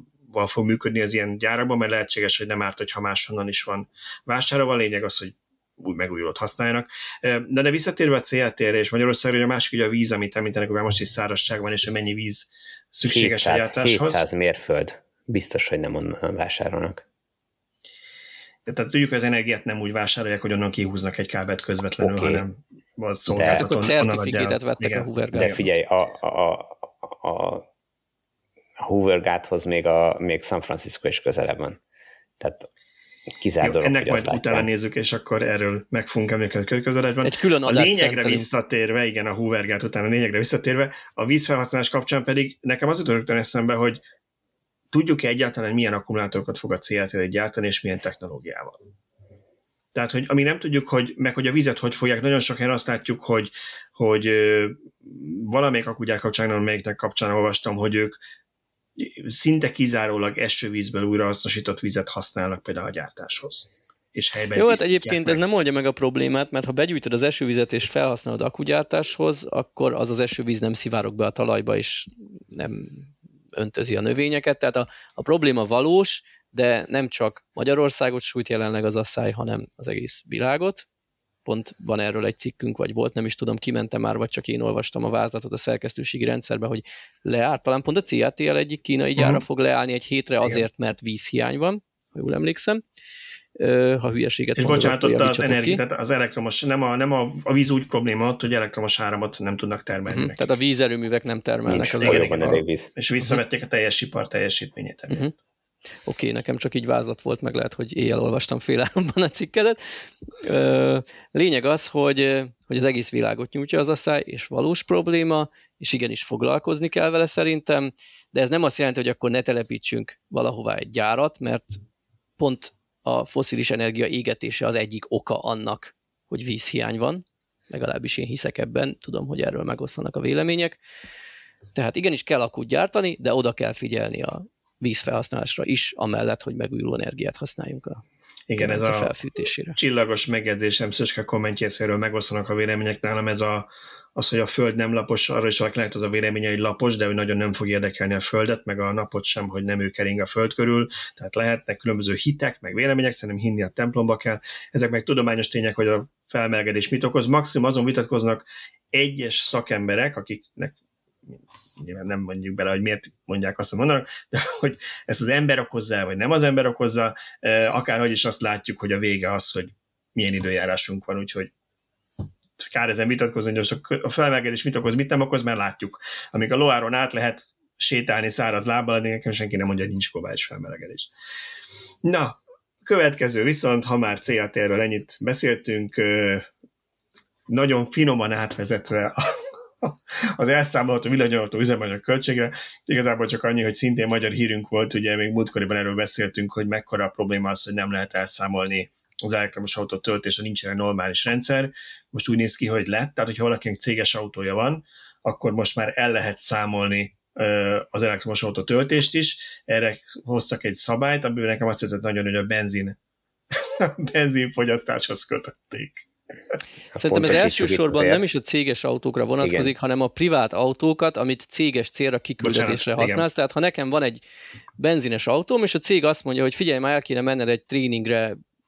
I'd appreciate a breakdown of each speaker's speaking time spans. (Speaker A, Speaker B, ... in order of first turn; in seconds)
Speaker A: 0.3-14.3, 18.7-25.1, 33.6-44.0, 44.9-48.8, 49.9-58.2, 59.0-65.4, 89.2-89.4, 94.6-100.5, 101.8-105.3, 138.5-139.2, 139.8-160.8, 161.8-171.5, 172.6-181.1, 182.0-186.5, 187.5-213.0, 213.5-216.6, 222.4-223.3
Speaker B: 13.1-17.0, 22.0-22.4, 23.3-23.7, 25.3-27.7, 28.8-31.8, 32.4-32.7, 33.3-34.7, 101.7-102.9, 216.9-218.2, 219.4-219.7
Speaker C: 23.5-25.7, 37.2-38.5, 64.5-80.8, 81.5-92.8, 93.6-95.8, 100.1-102.6, 106.0-109.8, 110.4-121.8, 122.4-130.8, 131.8-138.0, 138.6-139.8, 217.0-224.2, 224.8-228.4